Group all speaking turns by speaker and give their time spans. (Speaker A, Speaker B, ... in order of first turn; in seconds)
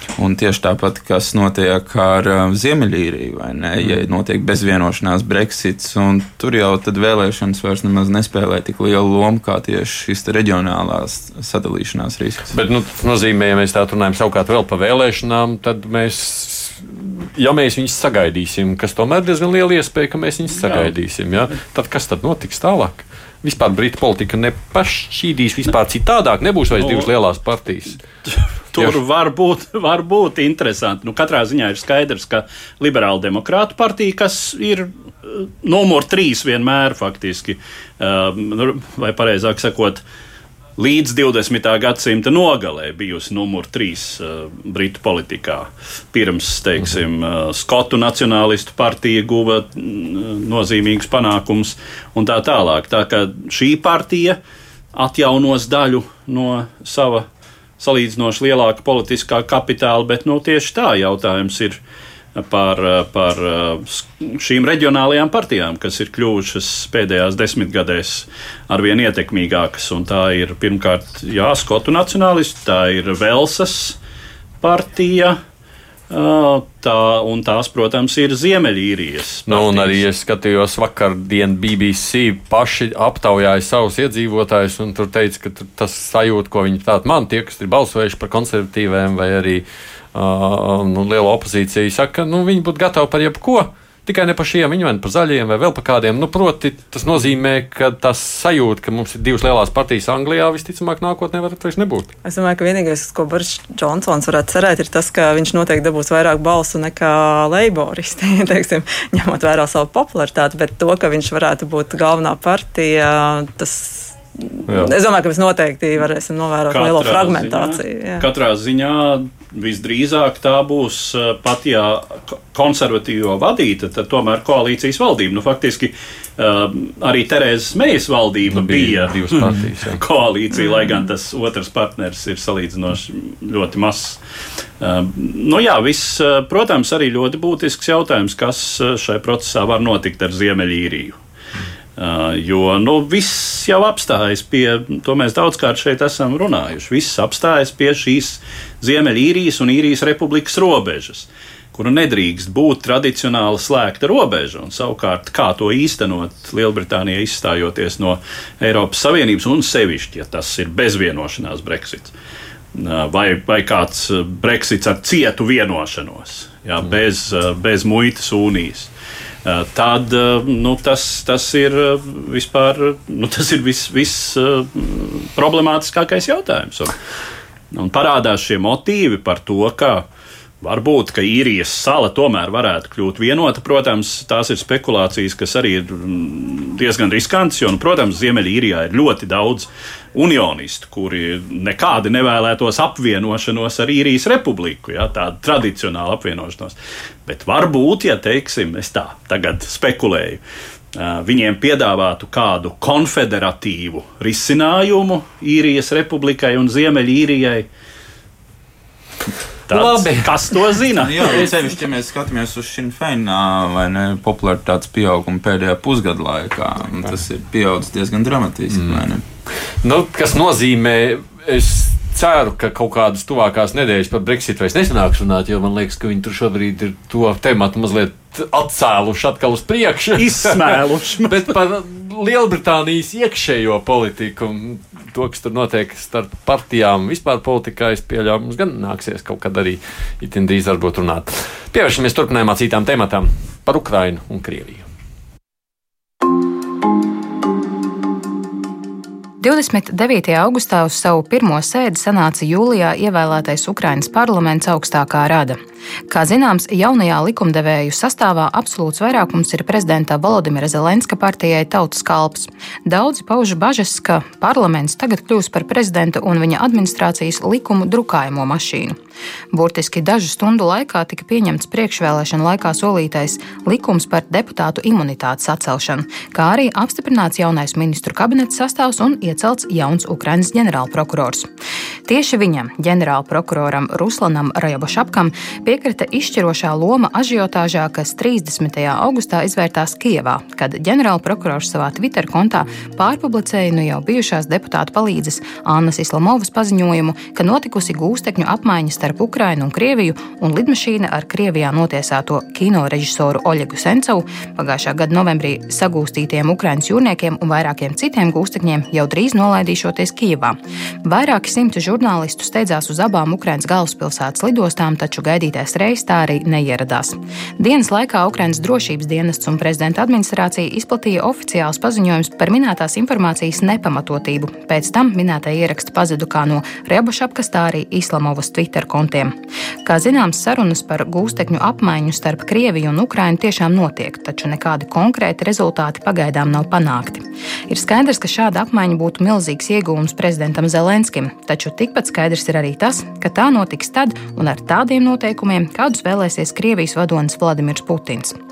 Speaker A: 0.2-12.6, 211.0-219.2
Speaker B: 12.5-28.0, 79.5-102.1, 114.7-114.9, 128.5-130.0, 209.7-210.7, 218.8-219.0, 219.8-230.8, 231.3-244.8
Speaker C: 20.6-20.9, 26.8-27.1, 28.3-40.0, 40.8-54.4, 54.9-57.3, 57.8-61.8, 62.4-74.0, 74.6-75.4, 76.1-80.0, 116.7-134.2, 134.8-141.2, 142.0-162.1, 162.7-168.9, 169.4-176.9, 177.7-180.1, 180.6-200.4, 200.9-207.7, 209.7-211.5, 230.2-231.6
Speaker D: 102.2-118.3
Speaker E: 249.4-255.6, 256.1-269.0, 269.5-281.5, 282.1-329.3, 329.9-348.4